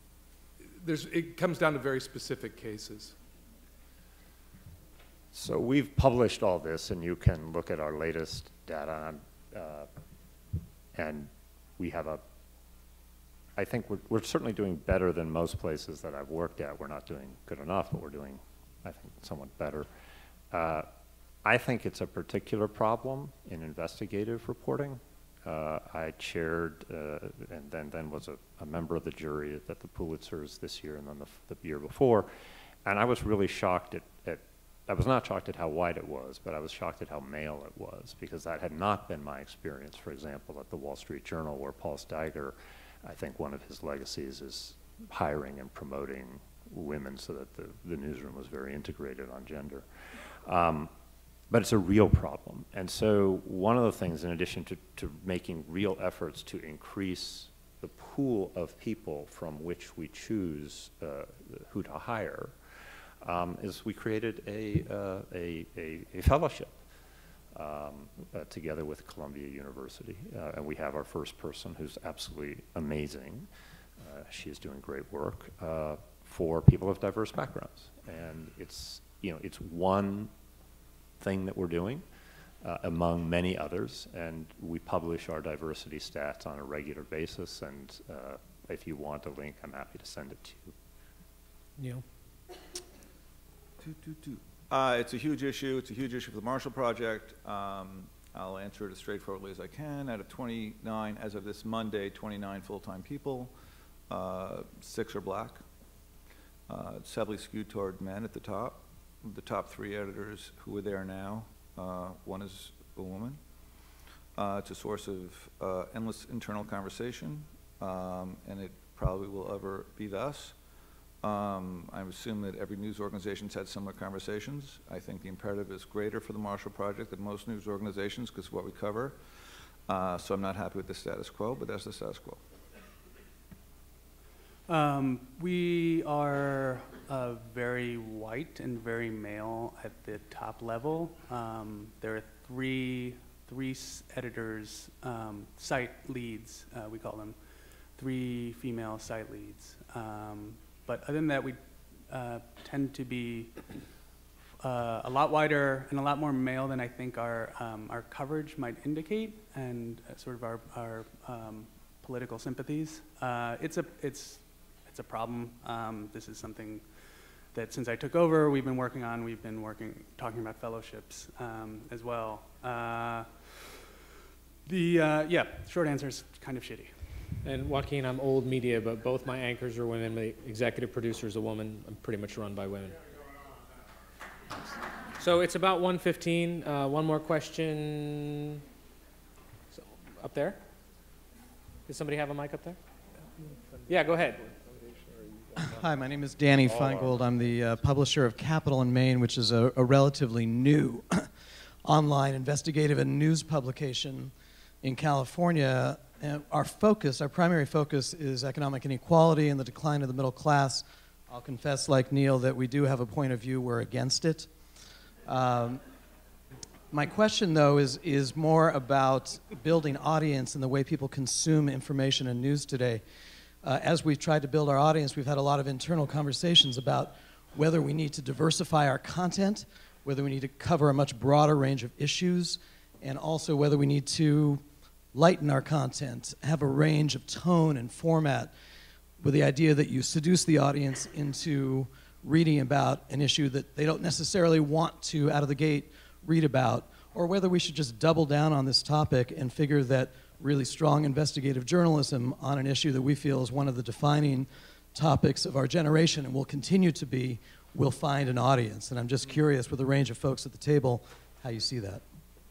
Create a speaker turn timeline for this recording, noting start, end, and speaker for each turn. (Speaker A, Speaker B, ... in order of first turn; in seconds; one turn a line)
Speaker A: 0.8-3.1
Speaker B: 5.3-9.9
Speaker B: 10.9-12.2
Speaker B: 13.6-19.9
Speaker B: 20.5-20.9
Speaker B: 21.4-32.3
Speaker B: 32.9-49.9
Speaker B: 50.5-50.9
Speaker B: 51.5-62.5
Speaker B: 63.2-66.8
Speaker B: 67.5-73.5
Speaker B: 74.0-80.3
Speaker B: 81.2-82.0
Speaker B: 82.6-90.7
Speaker C: 91.8-92.0
Speaker D: 93.8-103.5
Speaker D: 104.1-105.6
Speaker D: 106.7-113.4
Speaker D: 114.4-120.5
Speaker D: 121.2-129.2
Speaker D: 129.9-132.4
Speaker E: 134.7-147.4
Speaker E: 148.0-153.6
Speaker E: 154.6-166.8
Speaker E: 167.5-173.5
Speaker E: 174.7-176.9
Speaker C: 177.4-183.0
Speaker C: 185.2-188.6
Speaker C: 189.7-190.6
Speaker C: 191.9-192.8
Speaker A: 193.5-193.8
Speaker C: 193.9-194.5
Speaker A: 194.5-195.6
Speaker F: 195.6-201.3
Speaker F: 201.8-204.3
Speaker F: 204.8-214.5
Speaker F: 215.3-215.8
Speaker F: 216.9-223.0
Speaker F: 223.6-234.6
Speaker F: 235.1-238.5
Speaker F: 239.2-262.0